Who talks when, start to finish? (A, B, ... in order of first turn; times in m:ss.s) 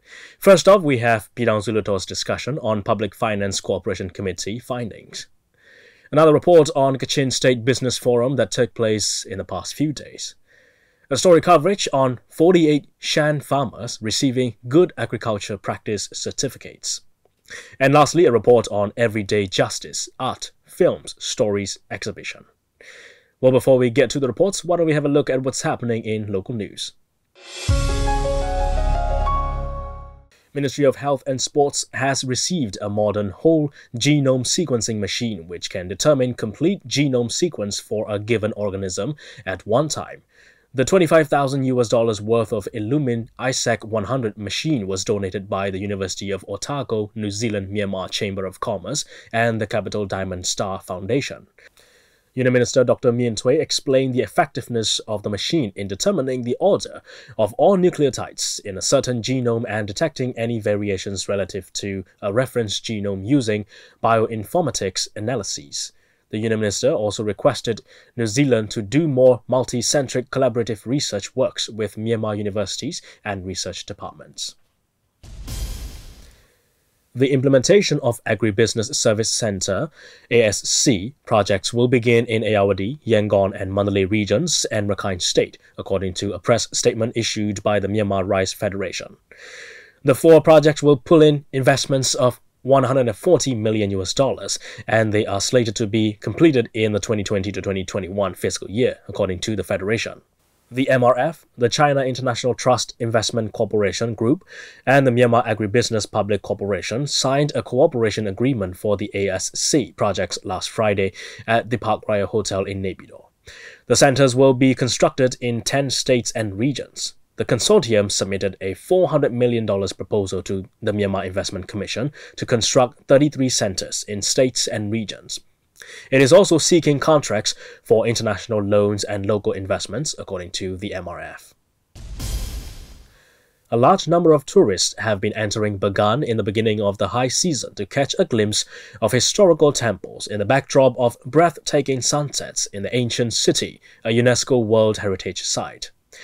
0:00.4-0:05.2 A
0:06.1-0:10.3 A
0:11.1-0:17.0 A
0:17.8-0:22.4 A
0:23.4-0:26.9 A
0:30.5-0:51.5 A
0:52.4-1:14.5 A
1:17.1-1:29.2 A
1:30.0-1:53.3 A
1:53.9-2:05.4 A
2:06.1-2:11.5 A
2:13.7-2:25.9 A